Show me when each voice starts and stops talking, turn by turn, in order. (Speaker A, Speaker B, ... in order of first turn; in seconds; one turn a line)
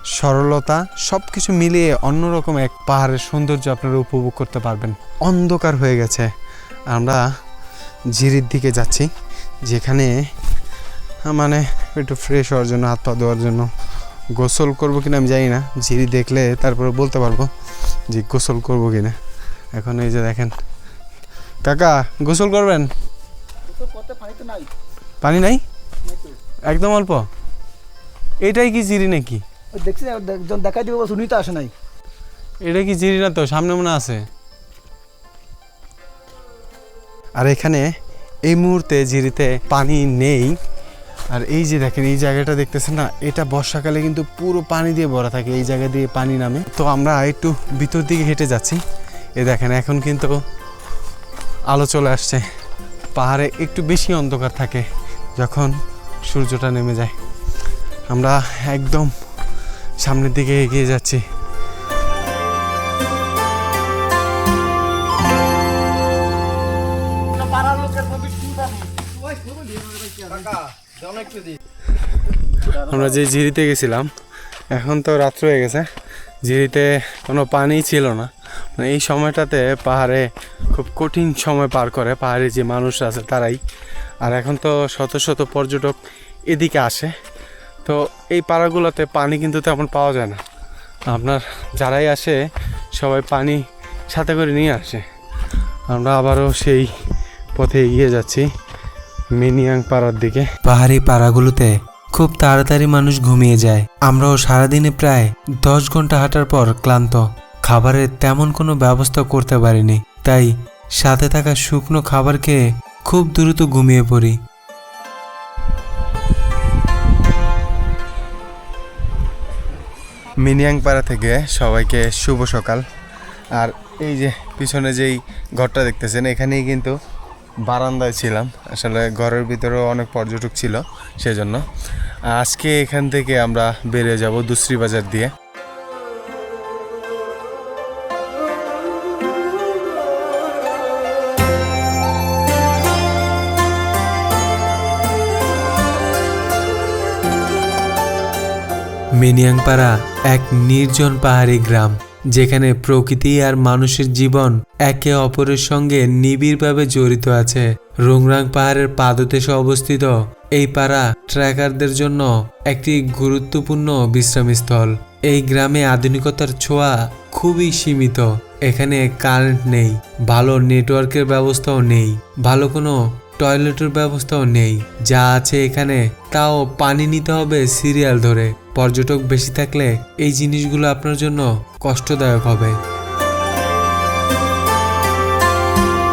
Speaker A: 0.1-6.3
Speaker A: 6.9-7.3
Speaker A: 8.1-9.1
Speaker A: 9.7-10.2
Speaker A: 11.3-13.7
Speaker A: 14.3-17.5
Speaker A: 18.1-19.1
Speaker A: 19.7-20.5
Speaker A: 21.6-22.9
Speaker B: 23.7-24.7
Speaker A: 25.2-25.6
Speaker B: 26.1-26.4
Speaker A: 26.7-27.3
Speaker A: 28.4-29.4
Speaker B: 29.7-31.7
Speaker A: 32.6-34.2
Speaker A: 37.4-37.9
Speaker A: 38.5-40.6
Speaker A: 41.3-48.8
Speaker A: 49.4-50.4
Speaker A: 51.7-52.4
Speaker A: 53.1-54.8
Speaker A: 55.4-57.1
Speaker A: 58.1-59.1
Speaker A: 60.0-61.2
Speaker B: 67.4-71.4
Speaker A: 72.7-74.1
Speaker A: 74.7-75.8
Speaker A: 76.4-83.6
Speaker A: 84.2-86.0
Speaker A: 86.5-87.1
Speaker A: 87.8-90.4
Speaker A: 91.1-92.4
Speaker A: 92.9-95.0
Speaker A: 95.9-96.9
Speaker A: 97.5-98.5
Speaker A: 99.3-100.6
Speaker C: 100.6-114.4
Speaker A: 120.4-122.8
Speaker A: 123.5-127.0
Speaker A: 127.6-131.6
Speaker A: 132.2-135.3
Speaker C: 149.2-182.8